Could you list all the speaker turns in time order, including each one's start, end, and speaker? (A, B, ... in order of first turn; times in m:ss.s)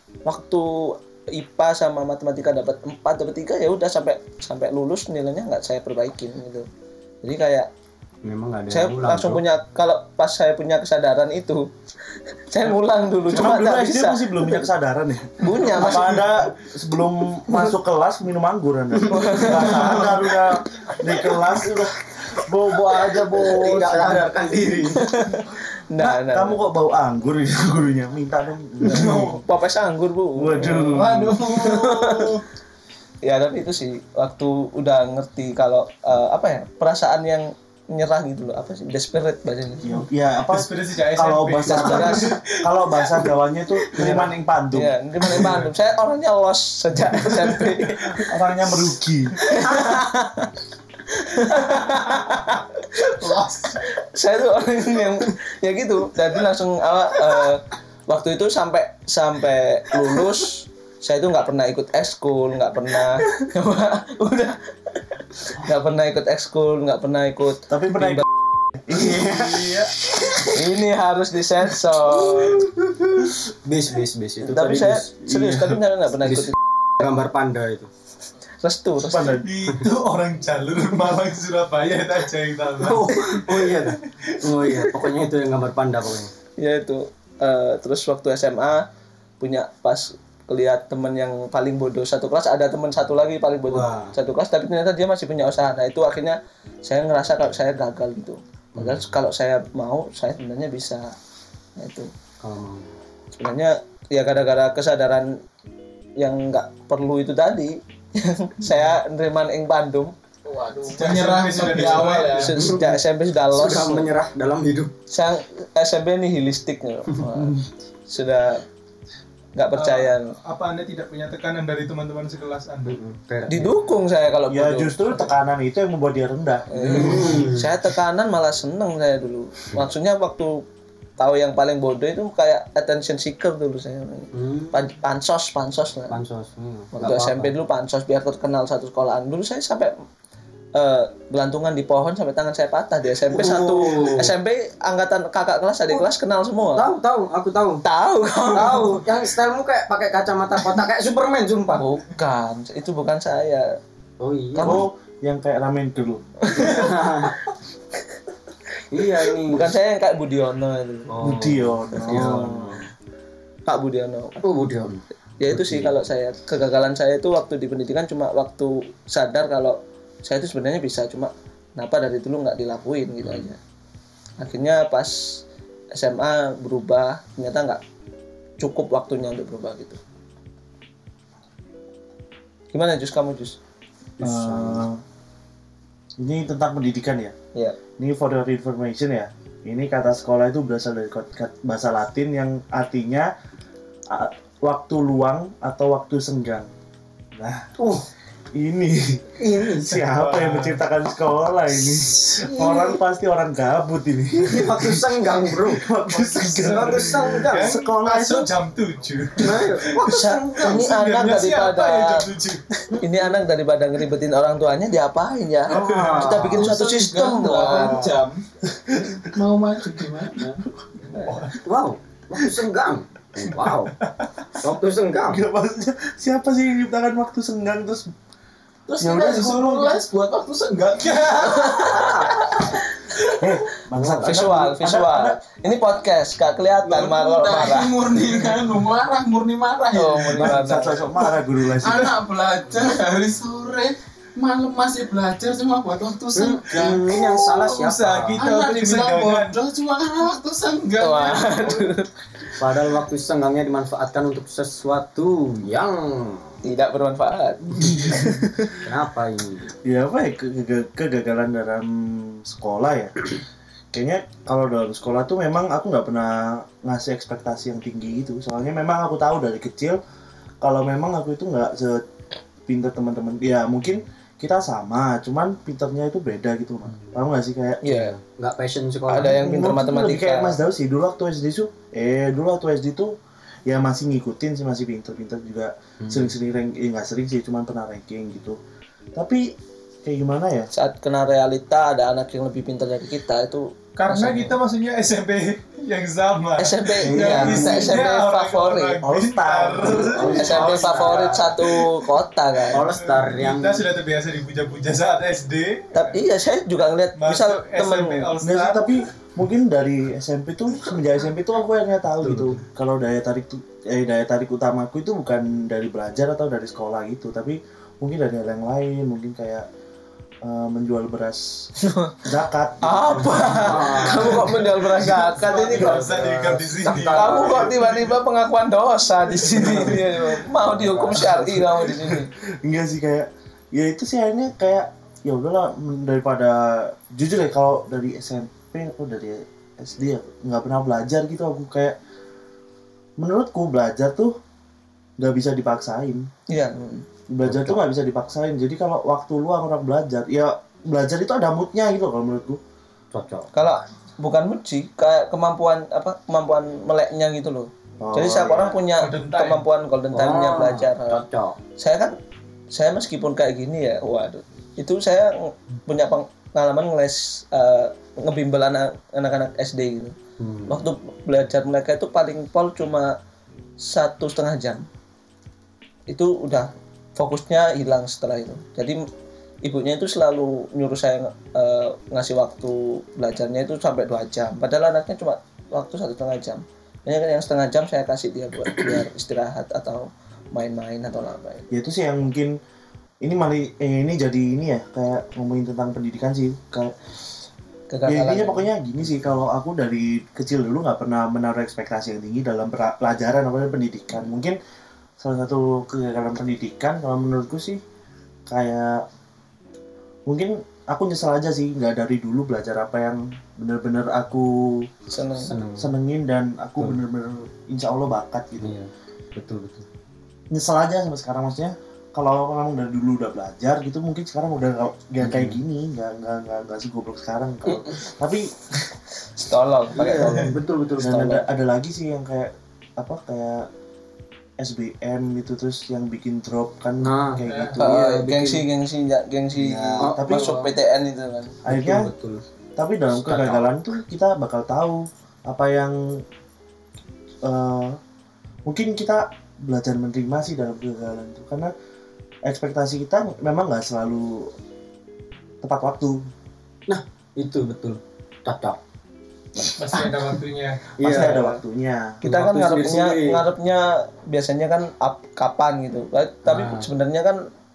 0:00.2-0:06.7 A
0:07.2-0:07.7 A
0:08.2-0:09.4 B
0:08.7-0:11.7 A
0:12.5-0:14.7 A
0:13.3-0:24.3 C
0:15.4-0:16.2 A
0:19.1-0:20.1 A
0:19.2-0:20.0 B
0:23.4-0:25.1 B
0:25.0-0:26.6 A
0:26.0-0:29.4 C
0:28.8-0:32.3 A
0:30.4-0:31.4 C
0:30.8-0:32.4 D
0:33.2-0:39.9 A
0:39.8-0:45.0 C
0:40.5-0:44.3 E
0:41.6-0:42.4 A
0:44.7-0:48.3 A
0:48.2-0:49.4 C
0:49.4-0:50.5 A
0:51.1-1:04.6 A
0:53.2-0:53.7 E
1:05.4-1:08.2 A
1:07.7-1:09.7 C
1:09.3-1:09.5 B
1:10.4-1:12.6 A
1:13.6-1:17.9 B
1:14.4-1:16.6 A
1:18.6-1:19.4 A
1:19.0-1:19.5 C
1:19.4-1:24.9 E
1:22.8-1:26.3 B
1:26.6-1:28.8 A
1:29.4-1:41.2 A
1:33.7-1:34.2 B
1:38.8-1:39.0 B
1:41.8-1:42.1 A
1:42.4-1:42.9 B
1:43.4-1:45.4 A
1:46.2-1:50.1 A
1:50.5-1:52.6 D
1:50.9-1:52.6 E
1:51.6-1:54.1 A
1:52.6-1:54.9 B
1:55.1-1:58.6 A
1:59.6-2:00.3 A
1:59.8-2:03.0 E
2:02.8-2:03.8 B
2:03.5-2:05.3 A
2:04.5-2:07.5 C
2:06.7-2:10.6 A
2:06.9-2:07.7 B
2:11.2-2:16.2 A
2:14.3-2:14.8 B
2:16.1-2:17.5 B
2:17.0-2:19.9 A
2:20.8-2:26.9 A
2:23.3-2:24.3 B
2:26.7-2:27.8 B
2:27.8-2:29.0 A
2:28.5-2:31.8 B
2:31.8-2:33.7 A
2:34.2-2:34.8 B
2:34.6-2:34.8 A
2:34.6-2:36.2 C
2:36.5-2:36.9 A
2:36.6-2:37.4 B
2:38.9-2:39.7 B
2:39.4-2:41.1 A
2:41.1-2:42.9 B
2:41.2-2:42.8 C
2:43.7-2:44.4 A
2:44.4-2:45.9 B
2:45.4-2:53.6 A
2:53.2-2:53.5 B
2:54.4-2:55.4 A
2:55.9-2:57.8 A
2:58.6-3:00.0 A
3:02.7-3:03.6 A
3:04.2-3:04.8 B
3:04.2-3:05.0 C
3:06.2-3:07.4 C
3:08.0-3:13.3 C
3:14.1-3:16.7 C
3:17.4-3:17.7 C
3:17.8-3:18.1 B
3:18.5-3:28.5 C
3:19.4-3:20.0 B
3:20.0-3:20.8 E
3:21.9-3:23.0 B
3:24.4-3:25.9 B
3:26.1-3:32.6 E
3:26.5-3:27.7 B
3:29.4-3:30.9 B
3:30.0-3:32.3 A
3:32.9-3:38.0 A
3:32.9-3:33.3 B
3:35.7-3:36.7 B
3:36.2-3:38.4 D
3:37.6-3:38.2 B
3:39.2-3:40.6 D
3:41.1-3:41.7 E
3:41.6-3:44.0 B
3:43.6-3:44.3 E
3:44.6-3:45.4 B
3:45.2-3:48.1 C
3:48.9-3:52.0 D
3:49.0-3:50.0 C
3:51.0-3:52.1 E
3:51.4-3:53.1 A
3:51.8-3:52.3 B
3:53.4-3:55.4 C
3:53.9-3:54.4 B
3:54.2-3:57.9 A
3:56.8-4:00.7 D
4:00.0-4:01.0 A
4:00.4-4:02.2 C
4:01.8-4:07.8 D
4:06.4-4:08.4 B
4:07.7-4:09.6 E
4:08.4-4:11.9 D
4:11.0-4:12.5 A
4:12.6-4:16.6 B
4:16.6-4:18.8 A
4:18.8-4:19.7 B
4:19.8-4:23.1 C
4:23.9-4:30.0 C
4:30.6-4:32.0 C
4:32.7-4:37.8 C
4:37.8-4:38.2 A
4:37.9-4:39.9 B
4:39.1-4:40.6 A
4:39.2-4:43.1 C
4:43.7-4:48.6 C
4:46.0-4:46.3 B
4:49.2-4:50.7 C
4:50.7-4:54.6 A
4:54.0-5:02.0 E
4:56.6-4:59.0 A
4:57.0-4:58.0 B
4:59.0-5:00.8 C
5:00.1-5:01.5 B
5:00.2-5:02.9 A
5:02.7-5:03.9 B
5:02.9-5:06.3 E
5:05.9-5:08.4 A
5:07.2-5:09.1 E
5:08.4-5:19.7 C
5:12.2-5:12.6 B
5:20.4-5:21.7 C
5:21.9-5:22.1 A
5:22.2-5:24.5 C
5:22.8-5:26.1 A
5:23.4-5:24.7 B
5:24.1-5:28.1 E
5:25.6-5:27.7 B
5:26.8-5:32.3 A
5:29.5-5:30.1 C
5:29.6-5:30.0 B
5:30.6-5:31.4 B
5:31.7-5:42.0 C
5:43.2-5:44.4 C
5:45.2-5:46.3 C
5:46.5-5:47.1 A
5:47.3-5:52.6 C
5:47.4-5:47.8 B
5:53.1-5:53.5 B
5:53.5-6:01.2 A
5:58.0-5:58.8 C
5:58.9-5:59.7 E
6:00.1-6:01.6 B
6:01.8-6:02.2 A
6:02.7-6:10.2 A
6:10.4-6:10.9 B
6:10.7-6:13.2 A
6:13.8-6:14.8 A
6:16.1-6:19.0 A
6:19.6-6:31.7 A
6:31.7-6:32.6 C
6:33.2-6:37.0 C
6:37.9-6:38.7 A
6:38.1-6:44.6 C
6:45.2-6:47.8 C
6:48.5-6:49.0 C
6:50.3-6:54.9 C
6:55.1-6:55.6 A
6:55.4-6:55.9 B
6:55.8-6:58.8 C
6:58.6-6:59.9 B
7:00.5-7:08.6 C
7:05.2-7:05.6 B
7:09.4-7:11.4 A
7:09.9-7:11.2 B
7:11.0-7:13.7 C
7:14.6-7:17.8 C
7:17.0-7:18.6 B
7:17.5-7:17.8 E
7:17.8-7:21.6 A
7:19.6-7:20.6 C
7:20.0-7:20.7 B
7:21.6-7:22.1 C
7:21.6-7:22.4 B
7:22.8-7:26.2 C
7:23.1-7:23.6 B
7:27.4-7:28.0 C
7:28.7-7:31.7 C
7:32.5-7:34.5 C
7:35.6-7:36.3 C
7:36.9-7:38.8 B
7:39.8-7:40.9 E
7:41.0-7:41.6 B
7:41.0-7:42.2 C
7:42.2-7:43.4 B
7:42.2-7:47.5 A
7:46.5-7:46.9 B